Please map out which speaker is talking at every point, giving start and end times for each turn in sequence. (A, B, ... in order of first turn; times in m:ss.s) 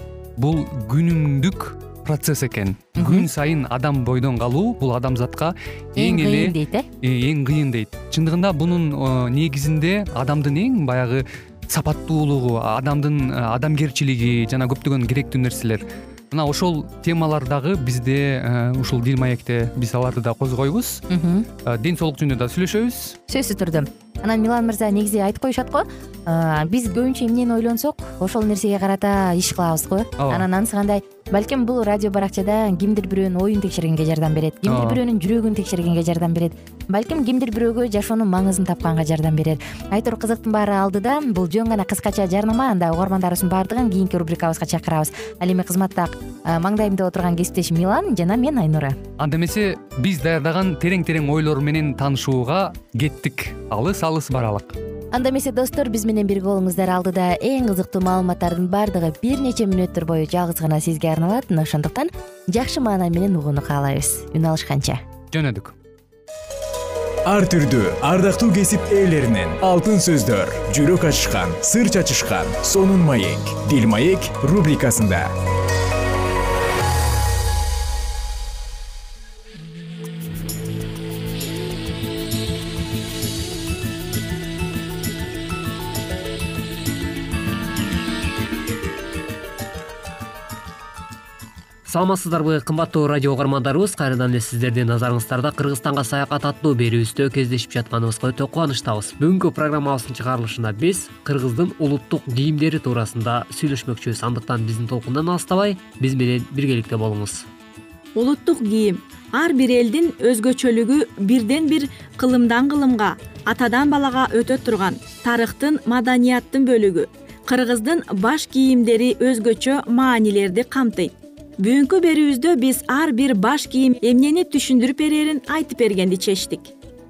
0:00.4-0:21.0 A
0:03.0-0:03.3 B
0:05.9-0:06.9 B
0:21.1-0:21.5 B
0:21.6-0:23.2 A
0:23.3-0:49.0 B
0:30.2-0:30.5 A
0:34.7-0:35.0 A
0:49.2-0:54.8 A
0:55.1-1:05.0 B
1:05.3-1:05.7 A
1:07.3-1:15.3 C
1:31.8-1:47.4 D
1:48.2-2:06.7 E